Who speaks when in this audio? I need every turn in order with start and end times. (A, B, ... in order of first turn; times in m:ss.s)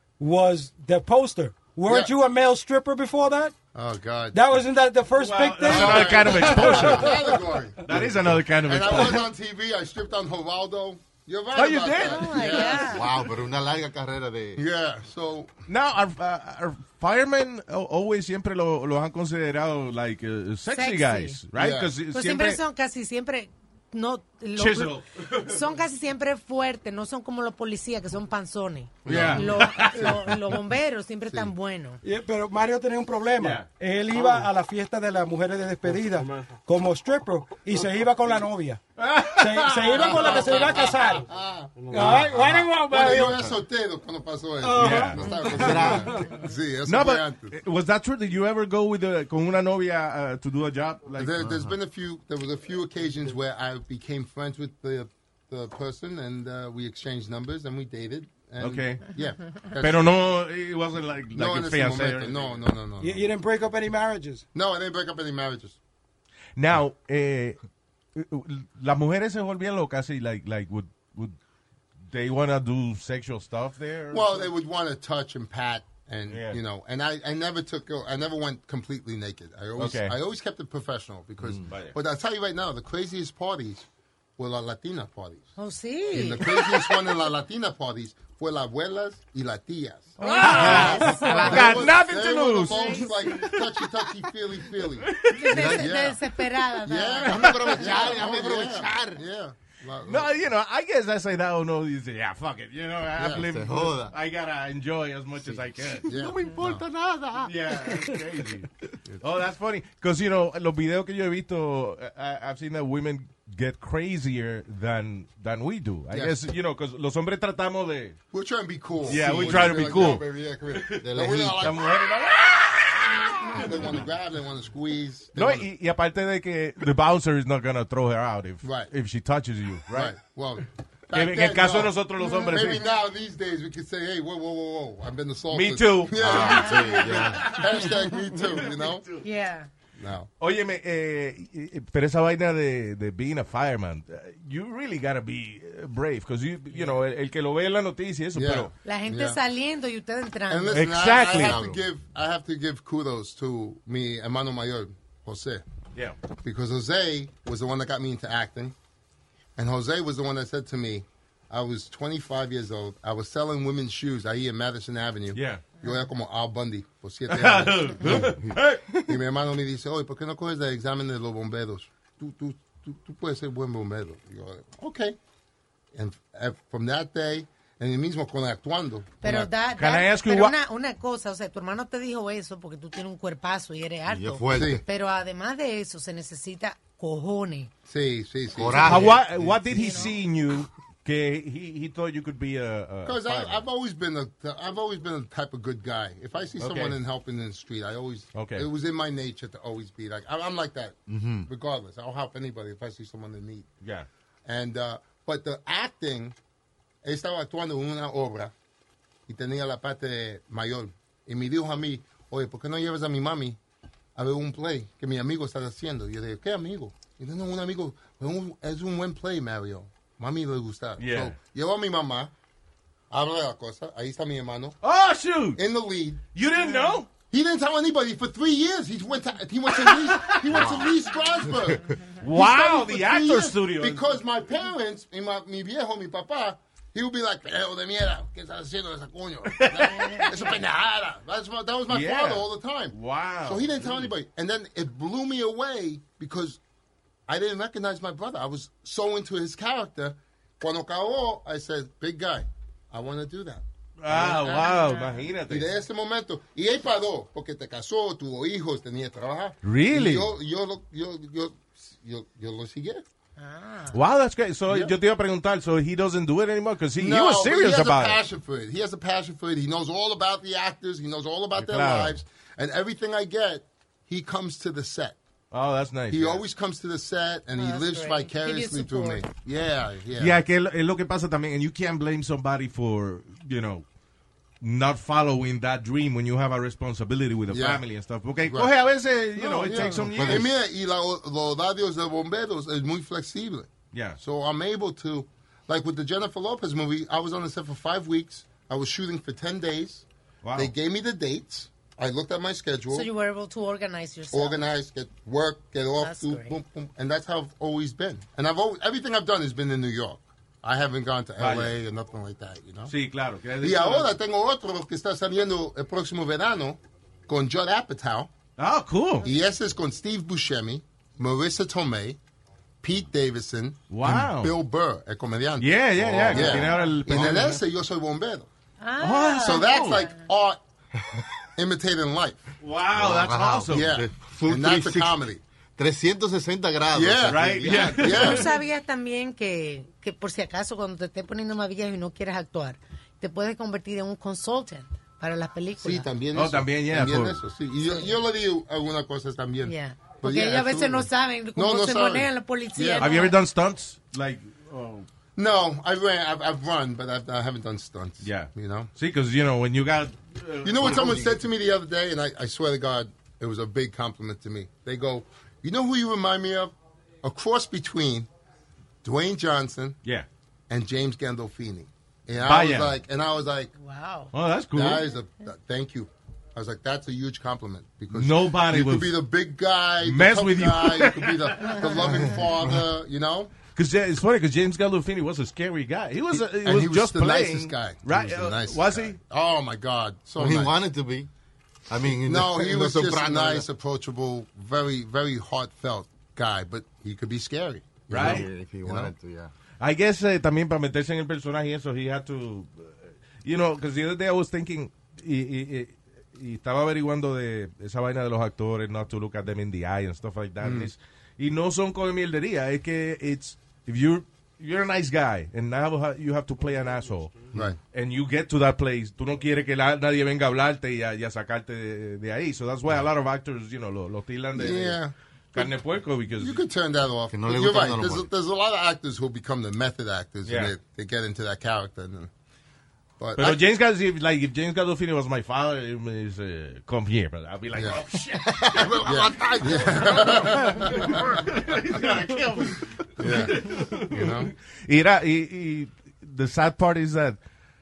0:00.2-0:03.5 A
0:01.8-0:02.1 B
0:03.7-0:04.4 B
0:04.3-0:07.4 A
0:05.1-0:07.2 C
0:05.6-0:13.2 B
0:07.8-0:09.3 C
0:11.5-0:12.9 C
0:12.0-0:13.0 D
0:12.8-0:14.6 E
0:14.5-0:15.5 B
0:15.7-0:22.6 C
0:20.7-0:21.4 D
0:21.5-0:21.9 B
0:22.1-0:32.0 D
0:24.6-0:25.7 C
0:29.0-0:29.5 E
0:29.0-0:30.3 C
0:32.0-0:38.8 A
0:33.4-0:33.7 C
0:39.0-0:40.6 C
0:39.4-0:41.3 A
0:39.9-0:47.6 B
0:41.9-0:43.4 A
0:44.6-0:46.4 A
0:44.8-0:45.2 C
0:45.5-0:46.2 E
0:46.8-0:51.3 C
0:51.2-1:00.1 B
0:51.4-0:51.7 E
0:58.6-0:59.0 C
0:59.8-1:02.6 C
1:01.3-1:03.3 B
1:03.0-1:04.4 A
1:04.5-1:05.8 B
1:06.6-1:07.6 C
1:08.1-1:11.4 C
1:12.1-1:14.5 C
1:14.1-1:23.8 B
1:16.3-1:16.6 C
1:19.8-1:20.1 C
1:21.5-1:21.9 C
1:24.4-1:25.5 B
1:25.6-1:26.8 D
1:26.1-1:36.2 B
1:30.2-1:32.0 D
1:30.2-1:34.0 C
1:32.7-1:33.1 D
1:35.0-1:35.7 C
1:35.3-1:37.8 D
1:35.4-1:35.9 E
1:36.8-1:40.3 B
1:37.2-1:39.2 E
1:37.4-1:37.8 C
1:40.1-1:46.2 C
1:43.2-1:43.4 B
1:43.3-1:44.1 E
1:45.4-1:48.4 E
1:46.0-1:46.8 B
1:47.4-1:58.2 C
1:56.1-1:56.4 B
1:58.3-2:02.0 B
1:59.0-2:01.0 C
1:59.1-2:00.2 E
2:01.0-2:01.8 E
2:01.6-2:03.8 C
2:03.5-2:05.7 B
2:05.4-2:10.2 C
2:08.6-2:08.9 B
2:09.9-2:19.0 B
2:11.1-2:12.8 C
2:15.5-2:19.2 C
2:16.2-2:17.4 E
2:16.4-2:17.6 D
2:19.2-2:19.7 D
2:20.0-2:20.3 B
2:20.4-2:28.7 C
2:28.3-2:29.4 B
2:28.8-2:31.2 D
2:30.5-2:35.6 B
2:30.7-2:31.6 C
2:31.4-2:31.8 E
2:36.4-2:38.7 B
2:39.6-2:48.4 B
2:45.3-2:45.6 C
2:47.3-2:48.9 C
2:48.0-2:48.6 E
2:49.0-2:55.2 B
2:55.9-2:59.5 B
2:59.2-3:07.7 D
2:59.3-3:00.6 C
3:04.1-3:04.8 E
3:04.5-3:04.8 B
3:07.9-3:09.2 B
3:08.5-3:09.9 E
3:08.8-3:13.6 C
3:09.6-3:10.1 D
3:13.0-3:23.7 B
3:16.6-3:17.0 C
3:18.3-3:18.7 C
3:21.1-3:21.5 E
3:23.8-3:24.1 C
3:24.4-3:26.4 B
3:27.0-3:28.5 B
3:29.3-3:33.6 B
3:34.2-3:42.3 B
3:41.0-3:41.3 C
3:43.1-3:44.8 B
3:44.8-3:45.6 C
3:45.5-3:46.2 B
3:46.3-3:47.1 C
3:47.3-4:06.6 B
3:49.9-3:50.4 C
3:50.5-3:50.9 E
3:52.2-3:54.0 C
3:59.5-4:00.4 C
4:01.9-4:03.8 C
4:07.3-4:14.7 B
4:14.0-4:15.7 C
4:14.4-4:15.2 D
4:15.5-4:23.0 B
4:19.6-4:20.3 C
4:23.4-4:24.0 D
4:23.9-4:28.2 C
4:24.7-4:24.9 B
4:27.0-4:35.2 B
4:31.6-4:32.2 C
4:35.5-4:36.4 C
4:36.1-4:40.4 B
4:37.6-4:39.2 D
4:40.2-4:43.8 C
4:44.6-4:50.5 C
4:47.5-4:47.8 B
4:48.4-4:48.7 B
4:49.3-5:03.1 B
4:49.8-4:50.5 E
4:53.9-4:54.2 C
5:00.4-5:00.7 C
5:02.9-5:04.6 D
5:04.3-5:12.9 B
5:06.0-5:06.6 D
5:11.4-5:11.7 C
5:12.9-5:14.1 C
5:13.6-5:18.3 B
5:18.6-5:19.3 C
5:19.2-5:22.2 B
5:22.8-5:25.7 B
5:23.9-5:24.5 C
5:25.6-5:27.6 C
5:26.0-5:27.4 E
5:26.2-5:28.5 B
5:28.8-5:30.2 D
5:29.0-5:30.1 C
5:29.4-5:30.6 B
5:31.6-5:32.5 B
5:32.6-5:34.0 C
5:32.9-5:35.1 E
5:33.7-5:35.4 B
5:35.8-5:38.3 E
5:36.9-5:38.5 B
5:37.2-5:38.5 C
5:38.0-5:46.0 D
5:45.8-5:53.2 B
5:46.3-5:47.4 C
5:49.6-5:53.4 D
5:53.0-5:55.0 C
5:55.4-5:58.9 B
5:58.2-6:01.3 C
6:00.6-6:08.3 B
6:09.0-6:10.0 B
6:10.7-6:13.7 B
6:12.4-6:13.0 C
6:13.8-6:14.3 D
6:14.3-6:15.0 C
6:14.7-6:23.5 B
6:18.1-6:19.2 C
6:20.0-6:22.0 C
6:22.0-6:22.8 E
6:23.7-6:29.2 C
6:26.3-6:30.8 B
6:30.4-6:31.3 E
6:31.9-6:33.6 E
6:32.2-6:39.1 B
6:38.1-6:38.5 C
6:38.1-6:39.5 E
6:39.8-7:05.0 C
6:50.6-6:50.9 B
6:57.5-6:57.8 B
7:04.5-7:05.7 B
7:05.5-7:06.6 C
7:06.4-7:12.3 B
7:07.3-7:08.3 E
7:10.4-7:10.7 C
7:13.2-7:13.6 B
7:13.4-7:27.4 C
7:17.7-7:18.0 B
7:18.5-7:22.0 E
7:18.6-7:21.3 B
7:23.2-7:24.5 B